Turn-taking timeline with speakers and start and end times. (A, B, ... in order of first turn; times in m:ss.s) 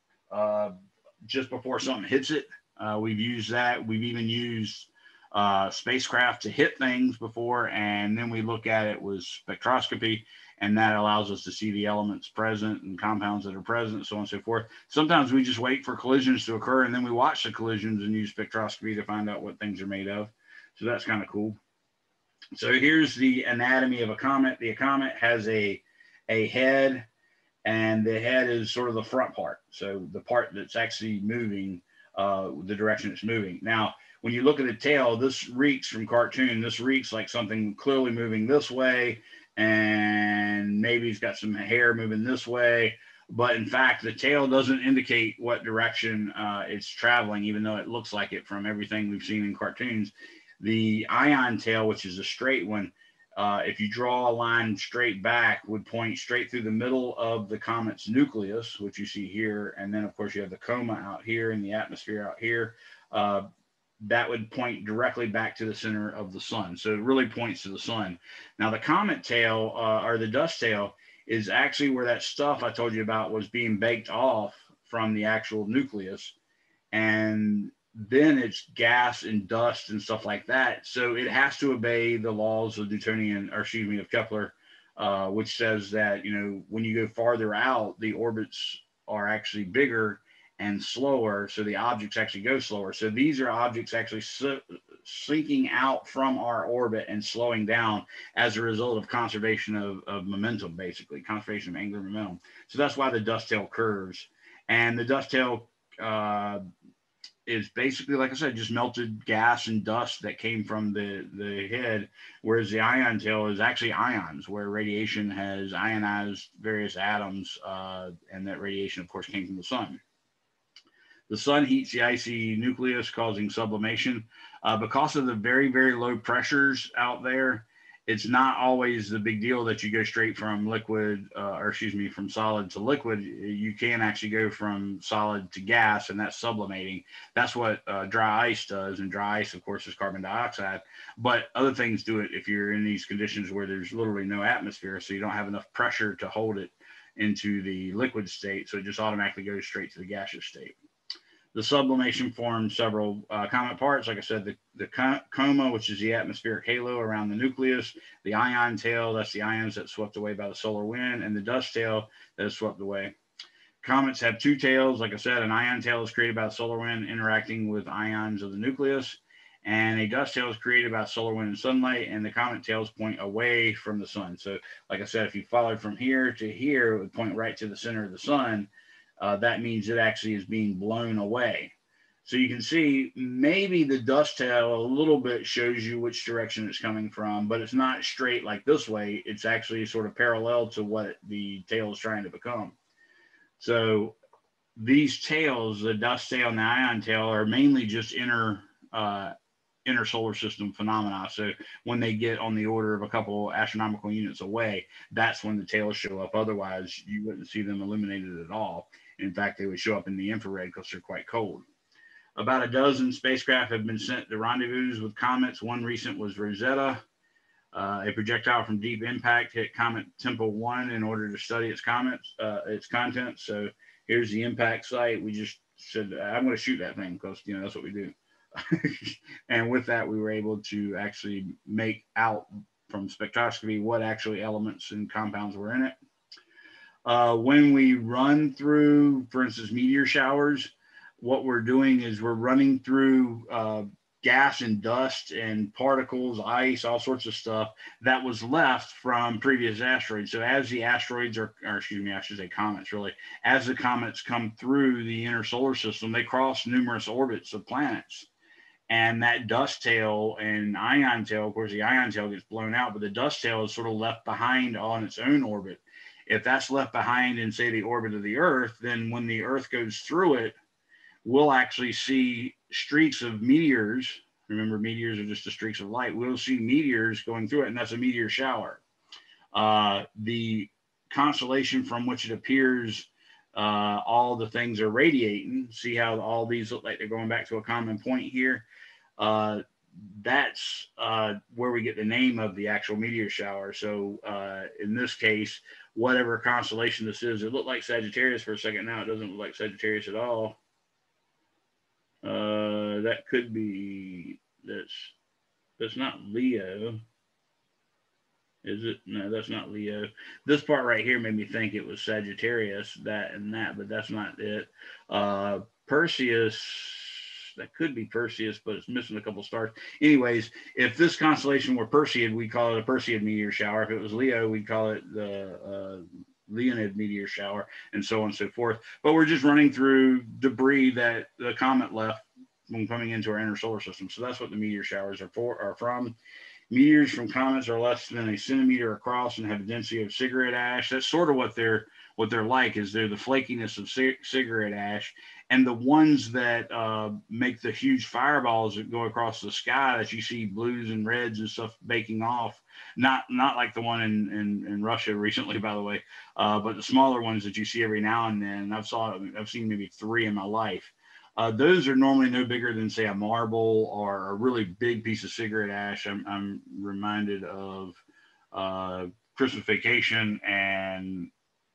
0:00.3-0:21.6 A
0:22.6-0:27.0 A
0:27.6-1:03.4 A
1:04.0-1:16.3 A
1:16.9-1:46.6 A
1:47.4-2:00.0 A
2:01.3-2:30.7 A
2:31.5-2:43.1 A
2:43.8-2:58.7 A
2:59.2-3:01.7 A
3:02.2-3:12.7 A
3:13.6-3:14.1 A
3:14.8-3:19.3 A
3:19.8-3:31.6 A
3:32.4-3:37.0 A
3:37.7-3:55.9 A
3:57.0-4:18.3 A
4:18.9-4:30.5 A
4:31.2-4:38.8 A
4:39.5-4:48.6 A
4:49.2-5:00.6 A
5:02.2-5:05.1 A
5:05.8-5:07.0 A
5:08.6-5:36.2 A
5:36.7-6:08.0 A
6:08.5-6:11.3 A